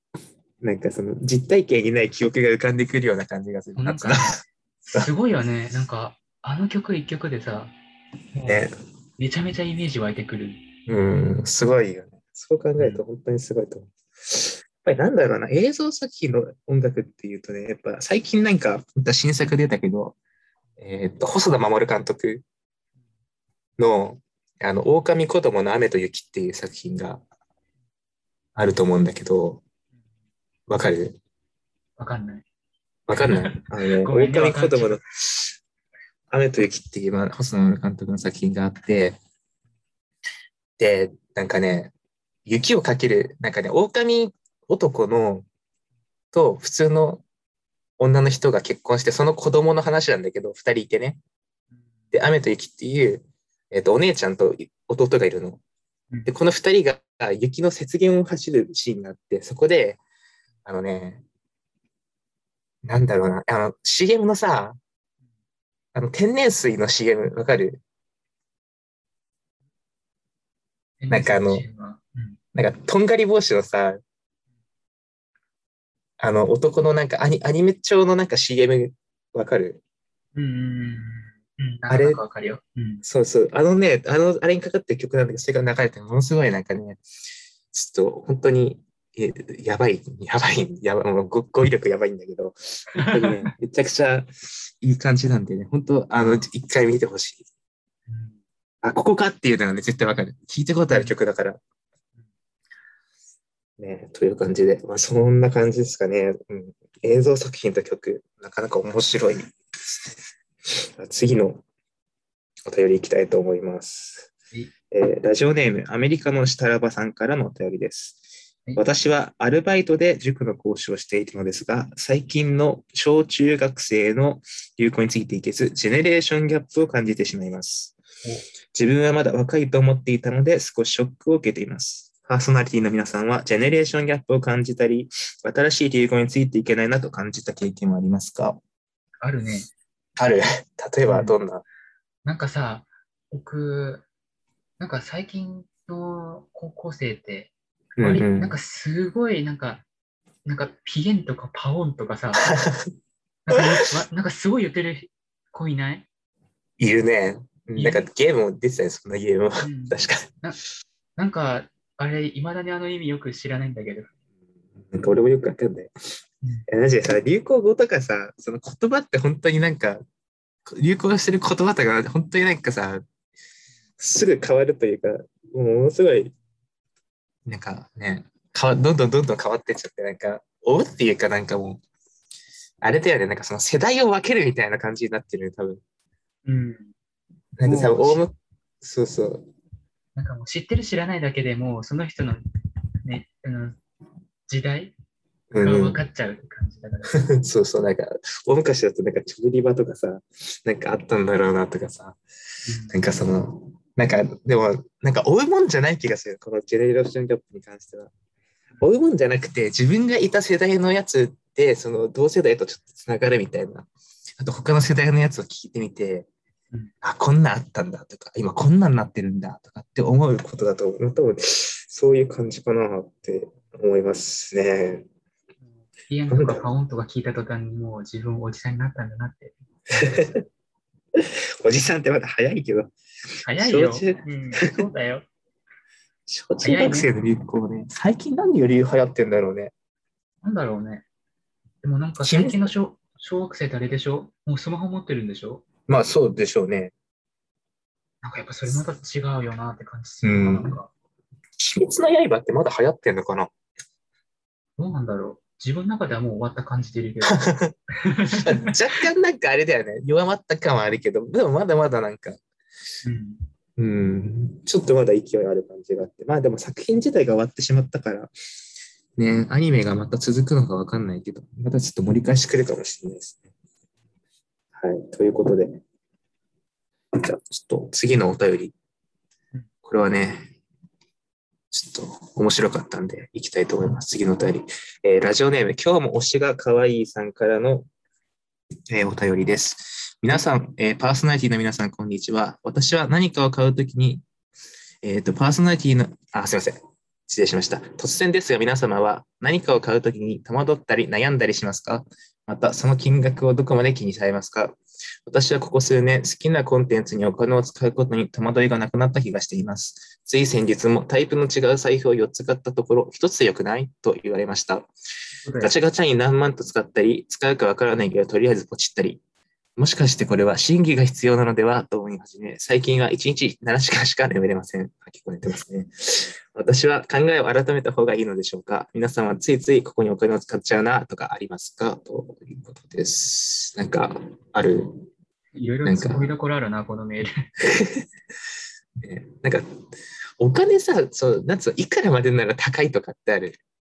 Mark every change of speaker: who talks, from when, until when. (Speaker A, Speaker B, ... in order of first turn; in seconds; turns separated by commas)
Speaker A: 0.6-4.4, Speaker B: 3.8-7.7, Speaker B: 8.3-10.6, Speaker A: 8.5-8.7, Speaker A: 10.9-20.1, Speaker A: 20.8-22.4, Speaker A: 23.8-27.2, Speaker A: 28.6-29.6, Speaker A: 30.7-31.2, Speaker B: 32.0-32.4, Speaker A: 33.1-35.5, Speaker B: 33.1-35.0, Speaker A: 36.3-39.2, Speaker A: 40.8-41.9, Speaker A: 42.5-45.5, Speaker A: 46.3-47.2, Speaker A: 48.0-51.2, Speaker A: 52.1-55.6, Speaker A: 56.2-60.0, Speaker A: 60.6-61.2, Speaker A: 62.8-64.8, Speaker A: 65.9-67.8, Speaker B: 71.0-72.4, Speaker A: 71.1-71.7, Speaker A: 72.5-74.0, Speaker A: 76.2-79.8, Speaker B: 80.3-83.0, Speaker A: 81.9-82.2, Speaker A: 83.0-87.0, Speaker A: 87.7-97.5, Speaker B: 93.0-93.5, Speaker B: 96.2-96.5, Speaker B: 98.1-98.4, Speaker A: 98.8-101.6, Speaker B: 100.9-101.1, Speaker A: 103.8-111.6, Speaker A: 112.7-114.3, Speaker A: 114.9-118.2, Speaker A: 118.8-128.0, Speaker A: 128.7-138.6, Speaker B: 139.2-139.7, Speaker A: 140.2-141.6, Speaker B: 141.1-141.3, Speaker B: 142.2-144.0, Speaker B: 144.8-149.8, Speaker A: 148.0-148.6, Speaker B: 150.4-152.5, Speaker A: 152.4-152.9, Speaker B: 153.4-156.1, Speaker A: 156.8-160.3, Speaker B: 157.8-158.1, Speaker B: 159.6-160.6, Speaker B: 161.2-164.1, Speaker A: 164.8-165.9, Speaker A: 166.7-170.0, Speaker A: 170.7-173.0, Speaker A: 174.0-176.3, Speaker A: 177.4-181.8, Speaker A: 182.8-185.8, Speaker B: 186.4-186.9, Speaker A: 187.6-189.5, Speaker B: 187.6-188.3, Speaker B: 190.2-192.4, Speaker B: 193.0-193.8, Speaker B: 194.5-194.9, Speaker A: 195.5-196.0, Speaker B: 195.6-197.2, Speaker A: 197.1-202.2, Speaker B: 202.6-203.0, Speaker A: 202.9-208.1, Speaker A: 208.8-213.9, Speaker A: 214.4-216.3, Speaker A: 217.0-225.1, Speaker B: 226.1-230.2, Speaker A: 226.3-226.7, Speaker A: 229.9-230.4, Speaker A: 231.2-232.9, Speaker B: 233.4-235.2, Speaker A: 233.6-234.7, Speaker A: 236.3-239.7, Speaker B: 236.6-237.1, Speaker B: 240.4-241.0, Speaker B: 241.8-245.6, Speaker A: 242.2-242.7, Speaker A: 245.9-246.9, Speaker B: 248.2-250.9, Speaker A: 250.2-250.8, Speaker A: 251.6-253.5, Speaker B: 254.8-258.7, Speaker A: 257.2-257.7, Speaker A: 258.4-262.4, Speaker B: 263.0-263.4, Speaker A: 263.8-268.3, Speaker A: 269.2-273.4, Speaker A: 274.7-275.8, Speaker A: 277.1-278.7, Speaker A: 279.8-280.5, Speaker A: 281.7-287.9, Speaker A: 288.9-294.2, Speaker A: 295.0-314.9, Speaker B: 315.4-315.7, Speaker A: 315.6-319.2, Speaker A: 319.8-335.1, Speaker B: 335.5-337.5, Speaker A: 335.8-336.3, Speaker A: 337.6-338.1, Speaker A: 339.0-339.8, Speaker A: 340.4-343.6